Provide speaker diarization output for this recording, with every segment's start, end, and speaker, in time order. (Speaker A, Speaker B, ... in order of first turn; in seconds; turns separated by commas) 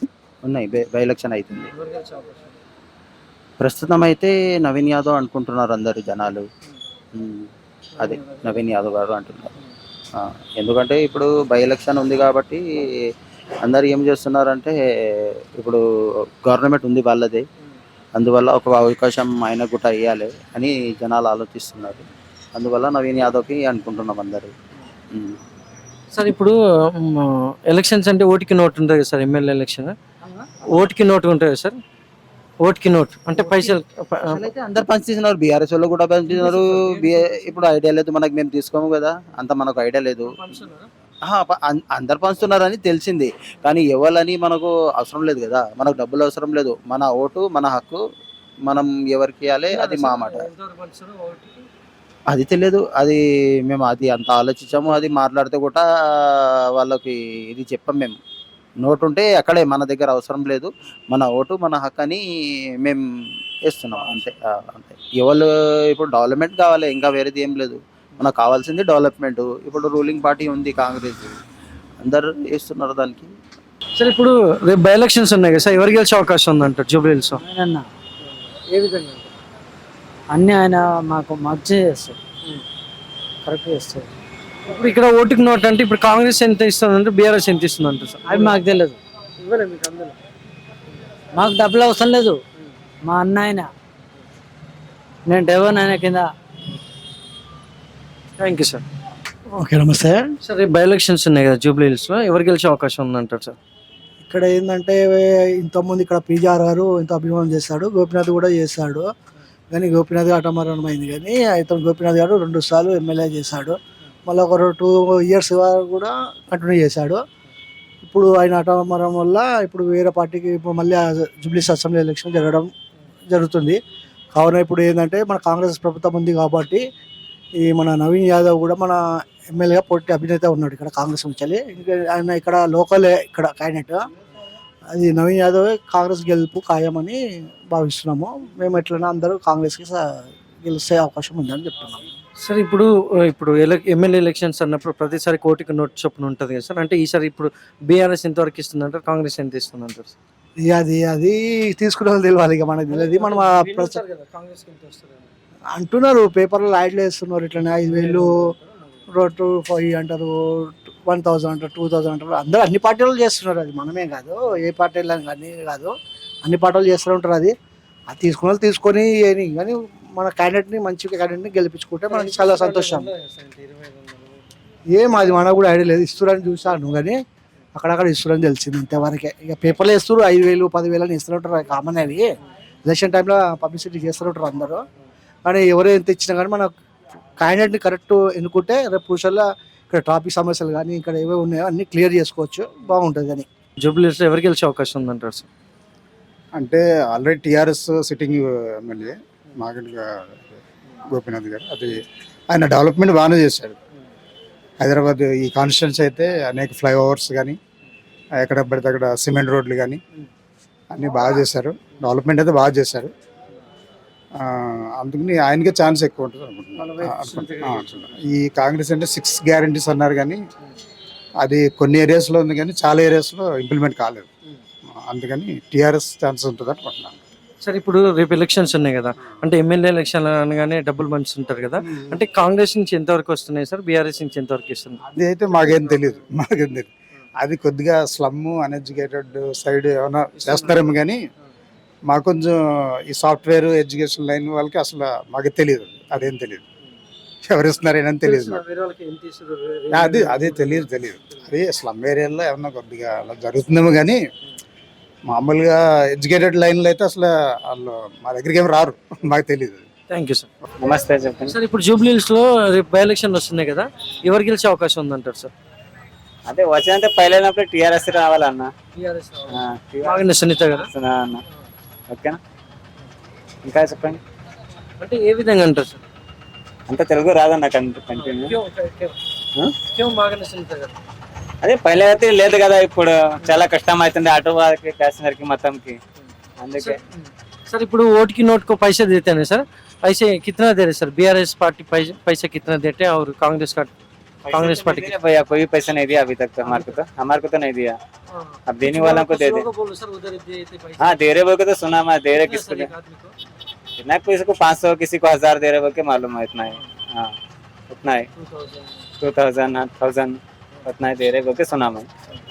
Speaker A: 0.5-1.7, Speaker B: 1.8-2.5, Speaker A: 3.6-6.5, Speaker A: 8.0-9.5, Speaker A: 10.2-12.6, Speaker A: 13.7-14.8, Speaker A: 16.4-17.4, Speaker A: 18.1-22.1, Speaker A: 22.6-24.5, Speaker B: 26.1-29.9, Speaker B: 30.7-31.8, Speaker B: 32.6-34.4, Speaker C: 33.4-33.7, Speaker C: 34.3-34.8, Speaker A: 34.8-40.3, Speaker B: 36.3-37.6, Speaker B: 40.3-40.9, Speaker A: 41.3-48.0, Speaker A: 48.7-50.4, Speaker B: 49.7-51.7, Speaker A: 52.3-55.9, Speaker A: 56.8-58.2, Speaker A: 58.8-62.2, Speaker A: 63.7-71.4, Speaker A: 72.0-73.3, Speaker B: 74.0-77.4, Speaker C: 77.4-77.8, Speaker B: 78.5-79.3, Speaker C: 80.3-82.2, Speaker C: 83.5-84.1, Speaker B: 84.7-88.6, Speaker C: 88.3-89.0, Speaker B: 89.4-90.1, Speaker C: 91.3-92.4, Speaker C: 93.1-93.7, Speaker C: 95.3-96.3, Speaker B: 98.4-98.8, Speaker D: 99.6-100.2, Speaker B: 100.4-103.6, Speaker D: 104.3-109.1, Speaker D: 109.7-117.2, Speaker D: 118.0-122.7, Speaker D: 123.3-123.8, Speaker D: 124.3-126.8, Speaker D: 127.6-129.0, Speaker D: 129.5-134.0, Speaker D: 134.9-137.2, Speaker D: 137.7-140.1, Speaker D: 140.6-142.0, Speaker B: 142.4-150.1, Speaker D: 150.6-154.0, Speaker B: 152.9-155.3, Speaker D: 155.8-158.4, Speaker B: 157.9-159.0, Speaker D: 159.1-165.9, Speaker D: 166.4-167.5, Speaker D: 168.1-173.1, Speaker B: 172.1-174.5, Speaker D: 174.9-177.2, Speaker D: 177.8-182.3, Speaker D: 182.9-184.8, Speaker D: 185.5-186.7, Speaker D: 187.4-193.5, Speaker B: 193.8-195.5, Speaker E: 196.6-200.6, Speaker E: 201.1-203.8, Speaker E: 204.8-207.6, Speaker E: 208.4-210.0, Speaker E: 210.9-213.1, Speaker E: 214.4-220.4, Speaker B: 216.8-218.2, Speaker E: 221.4-224.3, Speaker E: 225.0-227.2, Speaker B: 227.6-235.0, Speaker E: 231.9-232.2, Speaker E: 235.1-236.9, Speaker E: 237.4-241.2, Speaker B: 240.4-240.9, Speaker E: 242.1-246.6, Speaker E: 247.4-248.6, Speaker B: 248.2-250.9, Speaker E: 249.9-254.2, Speaker E: 255.3-259.9, Speaker B: 260.1-260.5, Speaker F: 260.8-261.6, Speaker B: 261.5-265.5, Speaker F: 266.5-268.7, Speaker B: 268.9-270.9, Speaker F: 269.5-270.2, Speaker F: 270.8-271.4, Speaker F: 272.1-272.4, Speaker F: 273.6-274.2, Speaker B: 275.0-276.0, Speaker F: 276.9-278.6, Speaker B: 278.1-279.2, Speaker B: 279.9-280.9, Speaker F: 281.6-286.0, Speaker F: 286.6-287.0, Speaker B: 286.8-293.9, Speaker F: 294.4-298.0, Speaker B: 294.5-295.1, Speaker B: 296.6-297.0, Speaker B: 298.3-301.2, Speaker F: 298.7-299.7, Speaker F: 301.0-302.9, Speaker B: 302.4-303.4, Speaker F: 304.0-307.3, Speaker F: 307.9-308.3, Speaker B: 308.4-309.0, Speaker F: 309.2-312.1